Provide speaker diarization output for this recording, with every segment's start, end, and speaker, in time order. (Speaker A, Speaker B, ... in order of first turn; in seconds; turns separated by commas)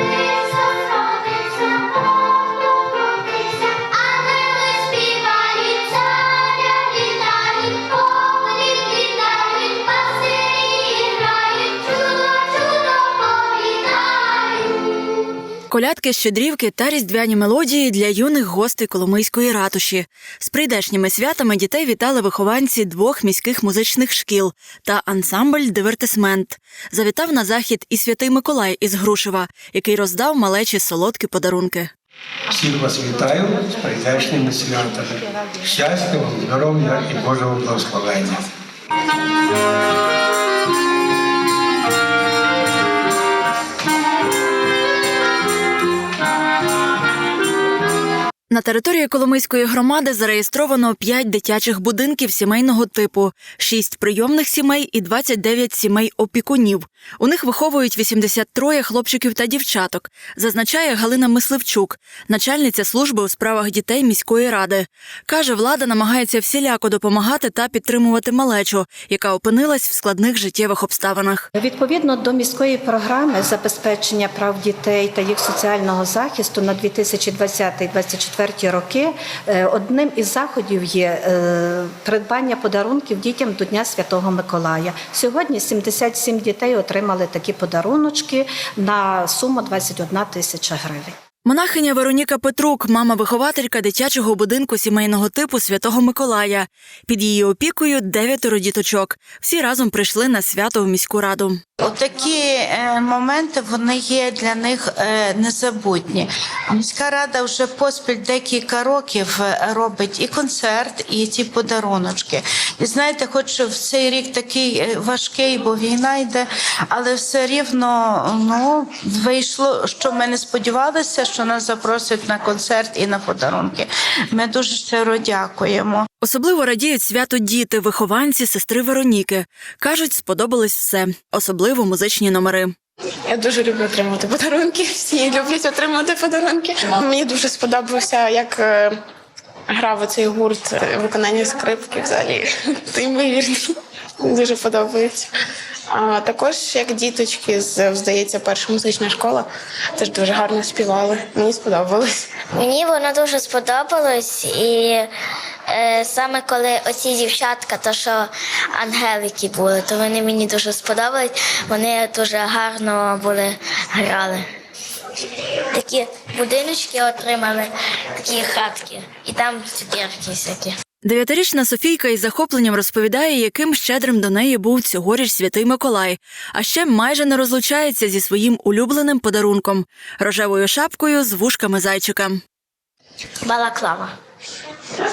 Speaker A: 0.6-2.0, Speaker A: 3.6-14.8, Speaker B: 15.7-31.9, Speaker C: 32.5-38.4, Speaker B: 48.5-71.5, Speaker D: 71.5-91.1, Speaker B: 91.4-101.6, Speaker E: 101.8-126.1, Speaker B: 126.2-132.7, Speaker F: 133.3-138.9, Speaker F: 139.7-145.3, Speaker F: 145.9-152.3, Speaker A: 152.6-155.1, Speaker A: 155.7-164.4, Speaker A: 165.7-170.8, Speaker B: 171.0-182.4, Speaker A: 183.4-184.1